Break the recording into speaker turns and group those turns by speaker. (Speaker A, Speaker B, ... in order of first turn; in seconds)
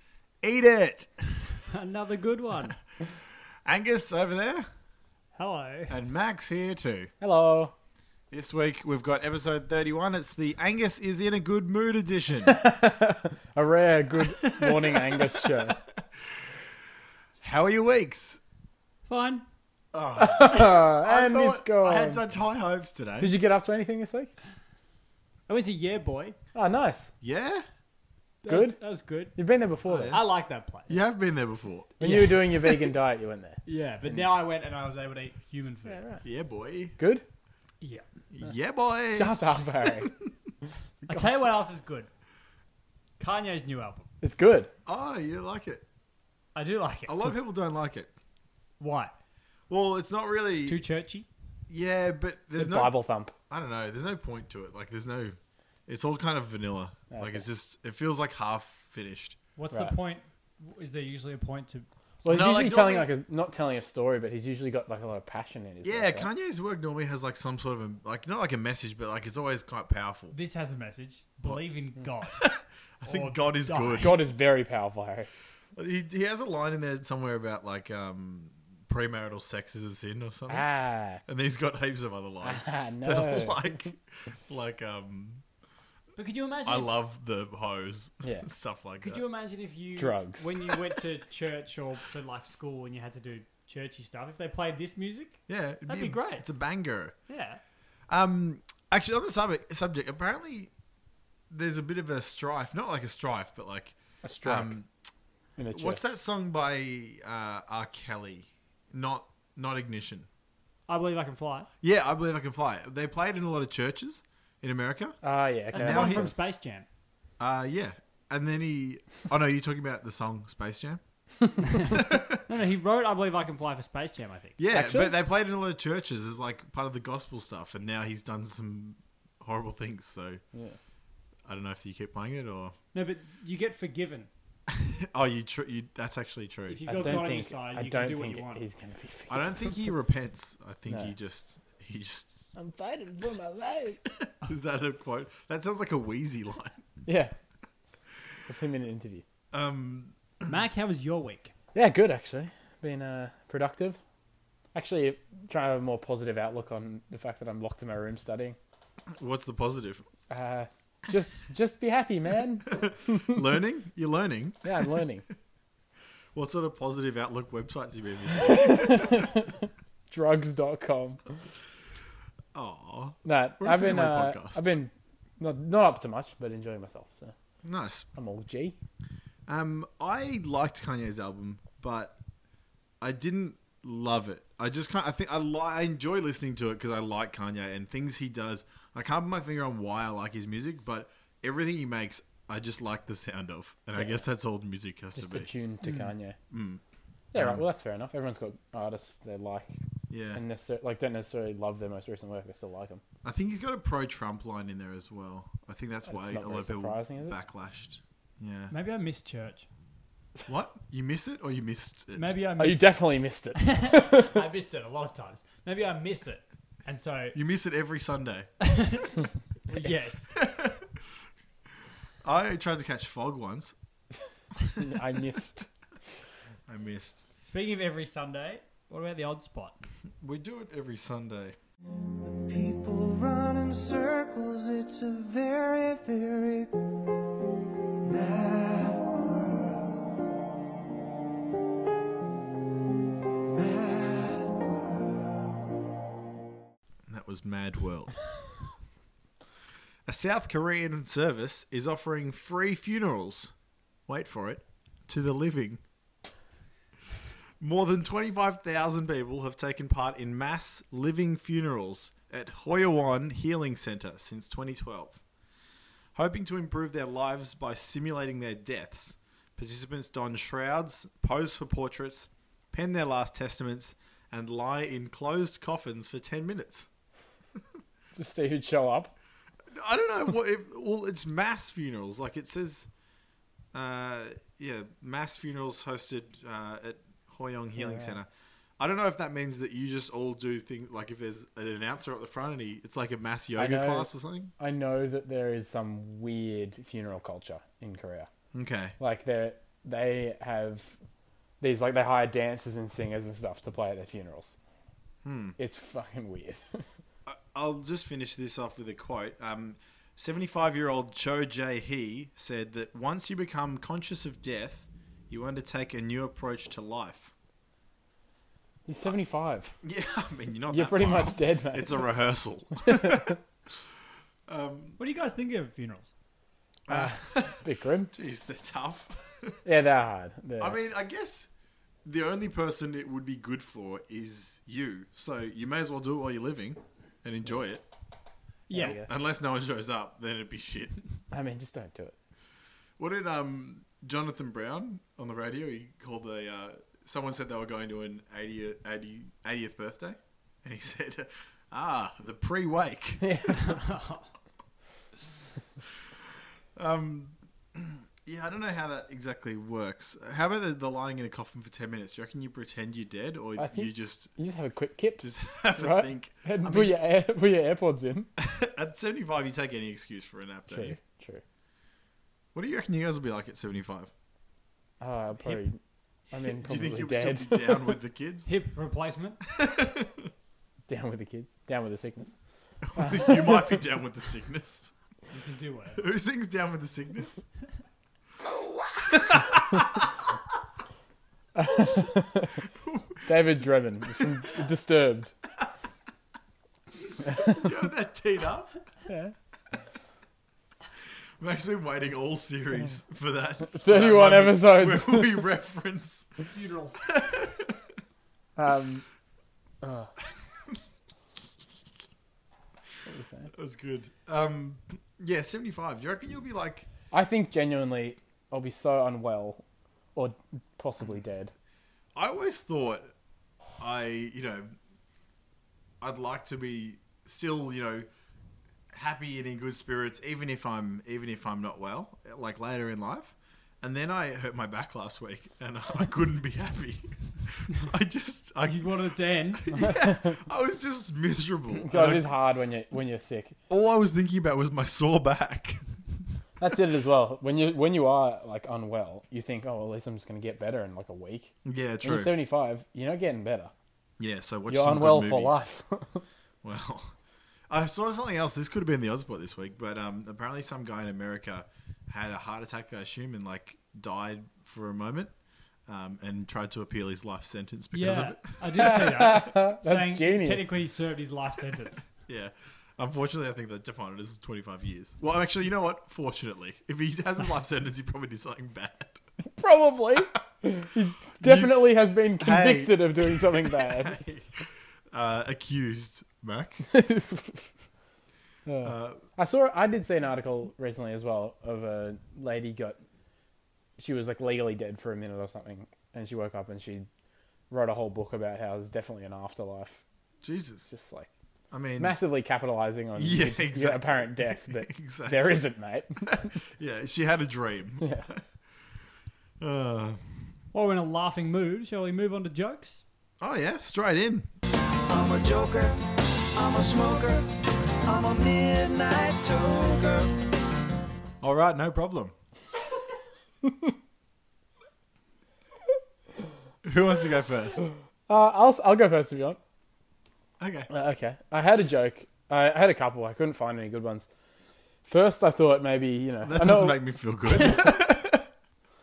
Speaker A: 0.4-1.6, 3.6-4.7, 5.9-7.1, 8.3-12.6, 14.2-15.5, 17.4-18.4, 19.9-23.3, 27.2-27.6, 29.9-30.2, 30.9-32.0, 36.2-37.0, 38.3-40.1, 44.9-45.9, 47.1-48.1, 49.7-50.8, 51.7-53.0, 53.5-59.4, 62.3-63.1, 65.8-70.3, 72.4-74.2, 75.8-80.7, 81.2-85.4, 86.7-89.2, 95.5-97.2, 98.1-100.7, 101.5-104.9, 105.7-110.3, 111.8-115.2, 115.8-116.3, 117.4-121.0, 121.9-122.4, 124.6-130.4, 131.5-132.8, 134.7-137.2, 139.3-142.5, 144.1-146.8, 149.5-150.2, 159.2-160.1, 162.7-164.7, 166.3-169.2, 172.5-174.7, 177.6-178.1, 179.5-182.1, 183.0-195.5, 196.5-196.8, 197.3-197.7, 200.1-200.4, 203.2-208.8, 210.5-212.3, 217.3-218.5, 220.3-220.9, 222.2-223.8, 226.7-227.2, 230.2-231.6, 247.1-248.1, 250.1-253.5, 254.1-255.8, 257.6-265.2, 266.1-276.9, 279.7-282.9, 283.7-288.3, 288.8-294.5, 298.5-298.9, 305.2-305.6, 307.3-317.3, 319.8-323.4, 324.5-325.0, 326.9-329.6, 330.6-331.5, 332.1-337.8, 338.8-341.0, 343.0-353.7, 356.8-364.3, 365.2-367.0, 368.4-371.0, 372.5-374.1, 376.3-378.5, 379.5-380.3, 382.8-384.9, 386.0-387.4, 389.1-390.1, 392.8-393.4, 397.4-398.8, 401.4-406.3, 407.1-407.8, 413.5-416.9, 422.1-423.1, 423.8-424.8, 426.0-428.1, 428.9-439.0, 439.5-442.3, 443.7-445.8, 451.6-452.4, 454.2-455.6, 456.6-457.1, 457.7-465.3, 465.9-469.1, 472.3-479.2, 481.4-486.9, 488.8-489.2, 500.4-500.9, 501.7-502.2, 503.2-505.7, 506.2-508.4, 509.6-510.4, 513.4-514.5, 521.4-522.3, 526.8-527.9, 530.6-530.9, 536.5-538.5
Speaker B: 1.7-2.8, 5.3-6.0, 19.1-19.4, 25.5-26.4, 28.4-29.4, 30.1-31.0, 32.0-32.4, 33.7-36.0, 41.1-42.1, 43.2-44.1, 46.5-47.4, 48.8-49.1, 50.7-51.3, 59.6-61.9, 70.3-72.4, 73.1-74.2, 86.2-86.9, 89.0-96.5, 97.3-97.6, 110.9-111.7, 115.7-116.9, 121.7-124.6, 132.9-134.3, 136.7-138.6, 150.4-151.5, 195.8-196.1, 208.7-209.7, 212.2-213.0, 213.6-217.4, 218.6-220.3, 227.4-229.8, 325.0-326.1, 338.7-339.0, 353.5-354.3, 378.5-379.4, 385.3-386.0, 406.5-407.1, 438.6-439.7, 467.9-472.1, 510.7-513.0
Speaker C: 7.2-7.7, 12.5-15.8, 20.2-22.2, 23.2-24.3, 26.5-27.1, 28.5-28.8, 29.4-30.2, 32.0-34.3, 35.9-36.2, 37.0-37.2, 39.1-40.1, 44.2-44.7, 52.6-53.3, 57.1-57.4, 62.2-66.3, 74.0-75.3, 80.5-81.2, 82.4-83.9, 90.0-90.5, 104.2-104.8, 105.6-106.0, 115.2-116.4, 124.7-125.1, 136.9-139.9, 142.6-144.0, 147.1-147.3, 148.5-149.2, 151.7-154.0, 154.7-158.6, 160.3-163.4, 164.6-165.2, 168.4-171.4, 173.2-177.3, 178.1-178.8, 194.0-194.2, 195.2-196.4, 197.3-199.8, 200.3-203.0, 206.1-207.3, 212.6-214.5, 224.8-225.7, 278.1-279.1, 287.8-288.2, 293.6-298.3, 299.0-300.9, 301.6-304.6, 305.6-306.8, 318.9-319.7, 320.7-322.1, 322.8-323.4, 326.9-328.1, 329.6-330.8, 338.7-339.1, 341.3-342.1, 353.2-353.8, 363.6-368.3, 370.7-371.4, 375.0-375.8, 376.3-378.0, 380.9-382.3, 383.0-383.8, 391.6-392.7, 393.3-395.3, 397.3-397.7, 399.1-399.3, 403.7-405.5, 408.6-409.1, 409.8-410.1, 413.1-413.5, 417.1-419.6, 420.2-421.5, 439.8-440.4, 441.8-443.6, 446.6-453.7, 454.7-456.2, 468.6-470.7, 479.6-484.2, 486.9-487.7, 488.7-493.0, 494.0-497.1, 497.7-500.0, 500.9-501.3, 502.0-506.5, 508.0-508.3, 528.3-529.6, 530.9-534.3, 535.1-537.0
Speaker D: 232.3-236.7, 238.2-238.8, 515.1-517.5, 518.0-520.3